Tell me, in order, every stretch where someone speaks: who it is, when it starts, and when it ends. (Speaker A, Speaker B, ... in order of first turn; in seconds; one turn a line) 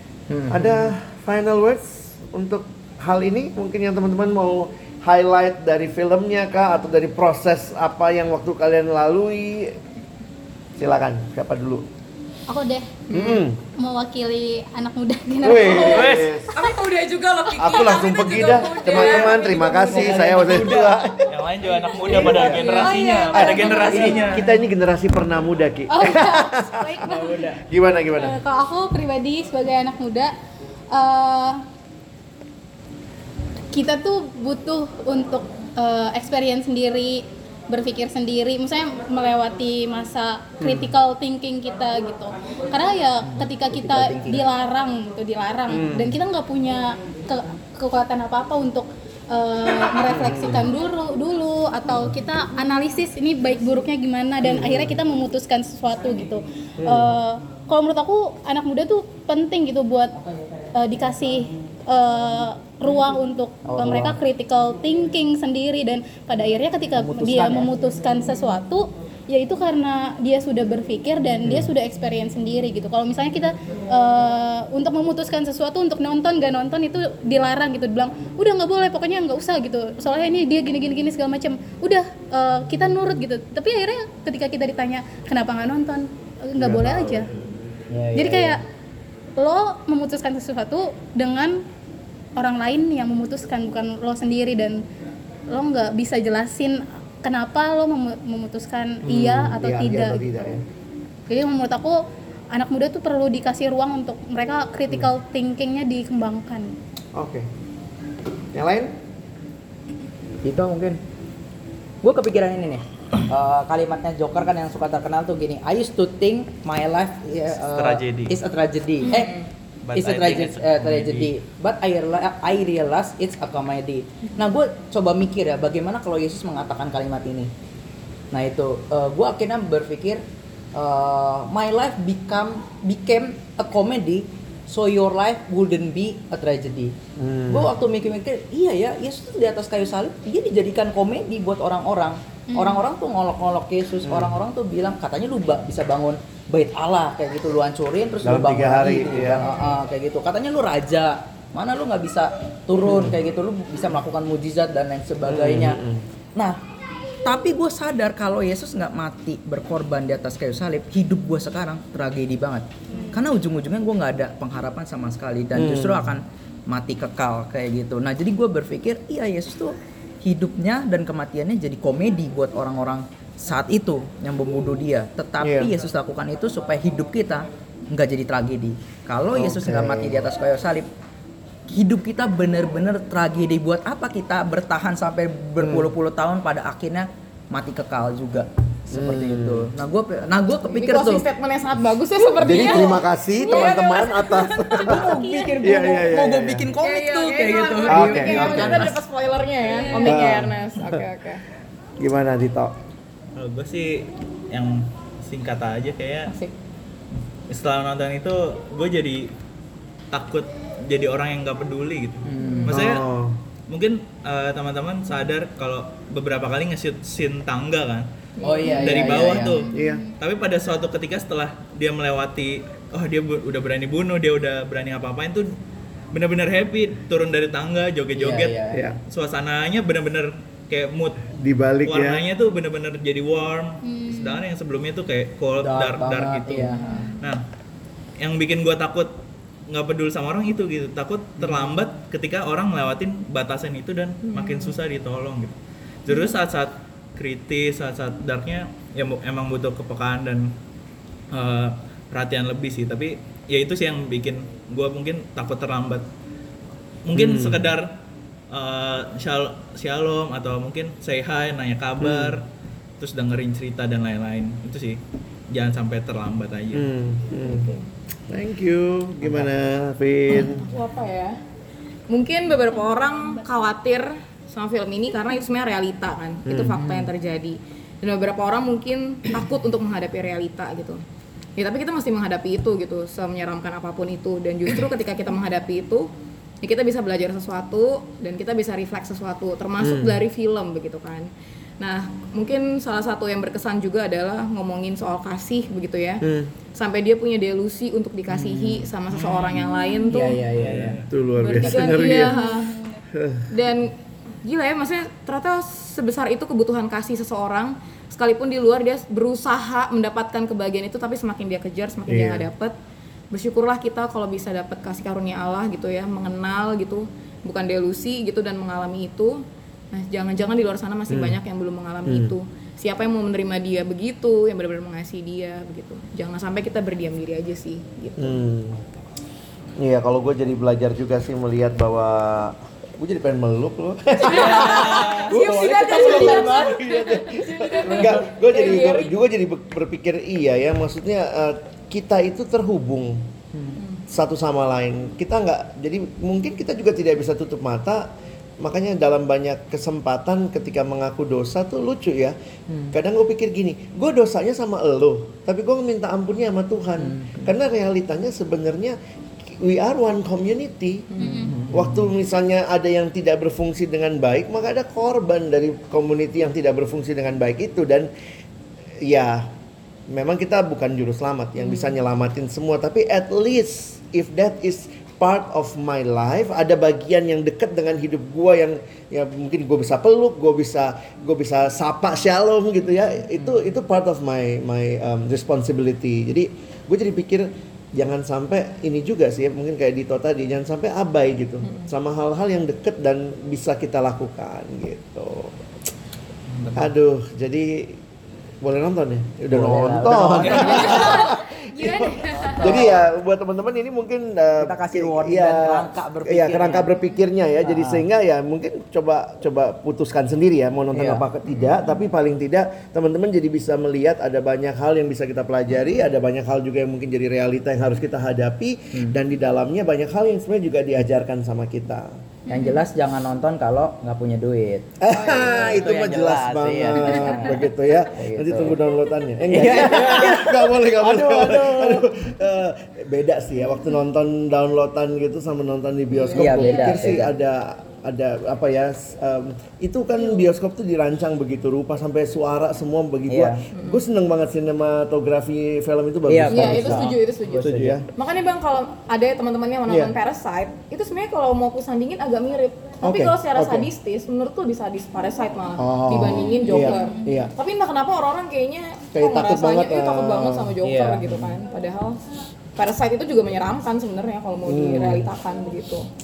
Speaker A: 0.3-0.9
Speaker B: 0.5-9.8
Speaker B: 10.8-11.8
Speaker C: 12.5-13.0
Speaker D: 13.1-13.4
Speaker B: 13.1-13.6
Speaker C: 13.8-16.3
Speaker B: 15.4-16.6
Speaker D: 15.7-20.9
Speaker E: 15.8-16.3
Speaker B: 17.6-21.2
Speaker C: 18.6-19.5
Speaker A: 18.9-21.0
Speaker E: 21.3-24.4
Speaker C: 21.9-24.4
Speaker A: 22.1-22.5
Speaker B: 22.1-28.4
Speaker D: 22.1-22.6
Speaker A: 23.9-24.4
Speaker C: 25.9-27.6
Speaker A: 27.1-27.5
Speaker C: 28.1-30.3
Speaker C: 30.9-31.6
Speaker C: 33.7-60.2
Speaker B: 40.6-40.9
Speaker A: 43.3-44.5
Speaker B: 45.7-46.1
Speaker B: 50.1-50.6
Speaker B: 54.4-55.0
Speaker B: 56.8-57.1
Speaker C: 60.8-87.3
Speaker A: 63.7-64.2
Speaker A: 67.0-67.7
Speaker B: 86.6-87.3
Speaker A: 87.9-88.6
Speaker C: 88.2-88.6
Speaker C: 89.4-91.6
Speaker C: 92.4-94.8
Speaker C: 95.5-100.3
Speaker B: 99.0-100.6
Speaker C: 101.3-102.0
Speaker C: 102.5-106.8
Speaker B: 107.2-107.5
Speaker B: 108.5-108.9
Speaker A: 110.4-111.0
Speaker A: 112.0-119.4
Speaker E: 117.6-118.4
Speaker D: 119.1-119.5
Speaker E: 119.8-121.3
Speaker A: 120.0-127.5
Speaker A: 128.3-130.2
Speaker A: 130.7-136.9
Speaker B: 137.2-137.7
Speaker A: 137.5-155.8
Speaker C: 142.5-142.8
Speaker B: 144.0-144.3
Speaker B: 148.2-149.4
Speaker B: 152.8-153.2
Speaker B: 155.2-156.0
Speaker A: 156.4-156.6
Speaker A: 157.2-180.9
Speaker C: 162.9-163.2
Speaker B: 165.5-166.1
Speaker B: 175.4-175.7
Speaker B: 179.3-180.2
Speaker A: 181.7-191.3
Speaker B: 185.6-185.9
Speaker B: 188.9-189.7
Speaker D: 190.7-195.0
Speaker B: 192.4-196.7
Speaker C: 193.5-193.8
Speaker A: 194.8-199.0
Speaker C: 194.9-195.6
Speaker D: 196.8-201.4
Speaker B: 197.9-198.9
Speaker B: 200.0-201.0
Speaker B: 202.0-202.7
Speaker E: 203.3-206.3
Speaker D: 206.3-206.5
Speaker E: 207.5-209.3
Speaker E: 210.1-213.1
Speaker A: 212.2-212.8
Speaker D: 212.4-212.7
Speaker B: 212.7-213.4
Speaker E: 213.7-218.1
Speaker D: 218.4-219.3
Speaker A: 218.4-219.7
Speaker E: 218.7-225.5
Speaker C: 219.4-220.2
Speaker B: 219.7-220.0
Speaker E: 226.1-231.3
Speaker A: 228.2-229.0
Speaker B: 228.7-229.0
Speaker B: 231.4-232.2
Speaker E: 231.9-237.4
Speaker C: 233.8-234.4
Speaker A: 235.6-237.1
Speaker C: 236.8-237.2
Speaker E: 238.2-239.1
Speaker E: 239.7-250.5
Speaker D: 244.2-244.8
Speaker E: 251.3-256.1
Speaker E: 257.1-257.9
Speaker B: 257.1-257.7
Speaker E: 258.5-262.5
Speaker B: 262.0-262.4
Speaker E: 263.0-265.0
Speaker E: 265.5-266.9
Speaker B: 266.7-267.7
Speaker D: 267.4-267.9
Speaker B: 268.3-270.7
Speaker D: 270.3-271.4
Speaker D: 272.1-281.0
Speaker C: 272.8-273.4
Speaker B: 276.5-276.8
Speaker A: 276.7-277.1
Speaker D: 281.6-286.1
Speaker D: 286.6-296.2
Speaker B: 289.8-290.2
Speaker B: 296.2-296.5
Speaker D: 296.8-300.5
Speaker A: 298.3-298.9
Speaker E: 299.1-299.7
Speaker A: 300.1-301.9
Speaker E: 300.6-301.1
Speaker B: 301.1-302.4
Speaker D: 301.4-302.8
Speaker C: 302.1-303.0
Speaker B: 303.1-303.5
Speaker D: 303.5-312.8
Speaker B: 312.1-312.5
Speaker D: 313.3-328.4
Speaker B: 321.1-321.4
Speaker B: 322.1-322.3
Speaker B: 328.2-328.8
Speaker B: 329.8-343.2
Speaker D: 334.2-339.1
Speaker E: 334.3-335.3
Speaker A: 335.3-336.8
Speaker A: 337.9-338.2
Speaker A: 343.5-343.8
Speaker D: 343.8-344.0
Speaker B: 344.1-348.1
Speaker B: 348.6-352.4
Speaker A: 352.7-352.9
Speaker B: 352.9-359.0
Speaker A: 357.0-357.5
Speaker B: 359.5-361.1
Speaker D: 361.1-361.5
Speaker A: 361.2-362.1
Speaker B: 361.7-368.1
Speaker B: 369.0-369.5
Speaker B: 370.1-395.6
Speaker D: 371.6-371.9
Speaker A: 383.4-383.6
Speaker E: 396.5-396.9
Speaker B: 396.8-398.0
Speaker B: 398.6-422.2
Speaker A: 399.5-401.3
Speaker E: 400.2-400.7
Speaker D: 400.5-402.9
Speaker C: 401.2-402.4
Speaker A: 402.2-403.1
Speaker A: 404.6-407.0
Speaker A: 407.6-408.1
Speaker A: 410.9-411.3
Speaker C: 422.5-422.8
Speaker A: 422.5-428.8
Speaker B: 425.0-448.1
Speaker D: 425.2-425.8
Speaker A: 429.5-432.1
Speaker D: 436.1-437.0
Speaker A: 436.3-437.3
Speaker A: 443.3-443.6
Speaker D: 443.8-444.0
Speaker A: 446.3-448.0
Speaker D: 446.5-462.2
Speaker B: 449.9-450.1
Speaker B: 453.0-453.9
Speaker B: 455.8-457.5
Speaker C: 456.4-457.2
Speaker B: 459.1-460.8
Speaker A: 460.8-461.5
Speaker D: 462.8-466.1
Speaker B: 464.6-465.3